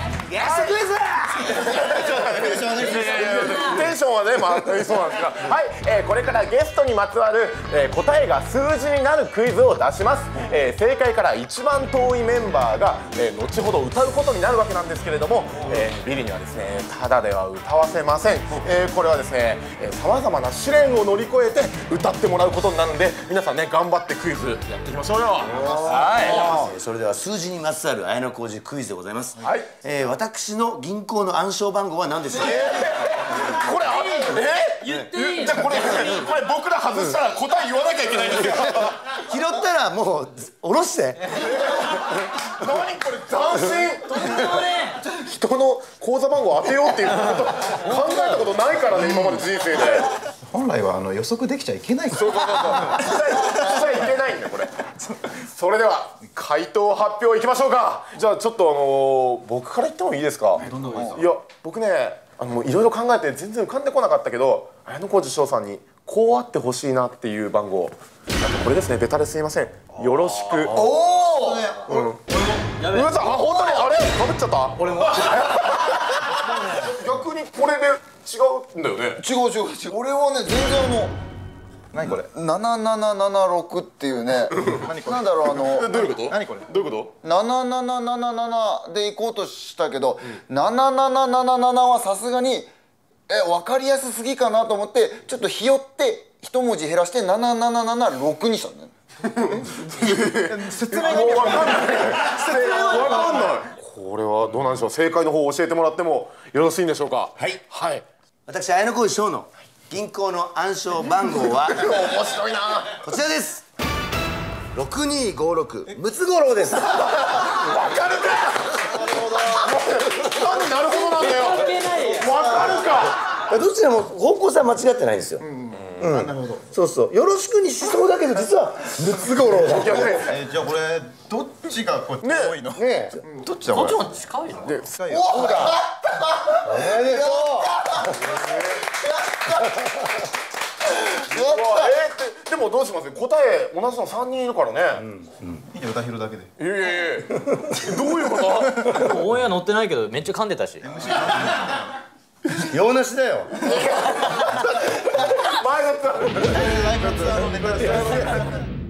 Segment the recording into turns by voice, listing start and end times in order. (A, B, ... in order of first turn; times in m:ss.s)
0:00.2-0:02.6 A
0:00.4-0:00.8 B
0:01.6-0:26.7 B
0:01.8-0:03.9 C
0:02.6-0:03.8 D
0:25.4-0:32.6 A
0:26.0-0:26.3 C
0:29.4-0:29.8 B
0:32.4-0:39.0 B
0:33.4-0:36.2 D
0:39.0-0:41.8 A
0:41.3-0:50.2 B
0:44.0-0:45.0 D
0:49.0-0:49.4 C
0:50.4-0:53.2 C
0:52.1-0:54.8 B
0:55.4-1:12.2 B
1:00.6-1:01.3 C
1:10.6-1:12.8 C
1:12.8-1:19.2 B
1:12.8-1:13.8 D
1:14.8-1:15.2 D
1:19.2-1:21.2 C
1:21.9-1:26.7 C
1:24.6-1:27.1 B
1:27.2-1:32.7 C
1:33.3-1:38.9 C
1:39.2-1:48.0 B
1:40.4-1:43.6 C
1:42.9-1:43.2 D
1:47.4-1:47.6 A
1:48.5-1:51.9 A
1:51.5-1:53.0 B
1:53.0-1:53.6 A
1:54.7-1:57.5 A
1:57.0-2:03.2 B
1:59.0-1:59.8 C
2:00.9-2:02.3 D
2:03.3-2:05.5 A
2:05.4-2:06.6 C
2:05.7-2:06.1 B
2:06.0-2:10.3 A
2:09.6-2:10.4 B
2:10.2-2:14.1 C
2:12.2-2:12.6 B
2:12.7-2:13.2 A
2:13.7-2:14.9 D
2:14.6-2:16.5 B
2:14.9-2:15.5 C
2:15.2-2:15.8 A
2:16.6-2:18.3 A
2:16.9-2:19.6 C
2:18.2-2:18.9 B
2:21.1-2:25.0 B
2:21.3-2:22.0 C
2:25.7-2:26.5 C
2:26.6-2:29.2 B
2:28.9-2:30.9 D
2:30.8-2:31.9 C
2:32.5-2:33.8 A
2:33.6-2:36.9 B
2:36.4-2:38.4 C
2:37.9-2:38.4 B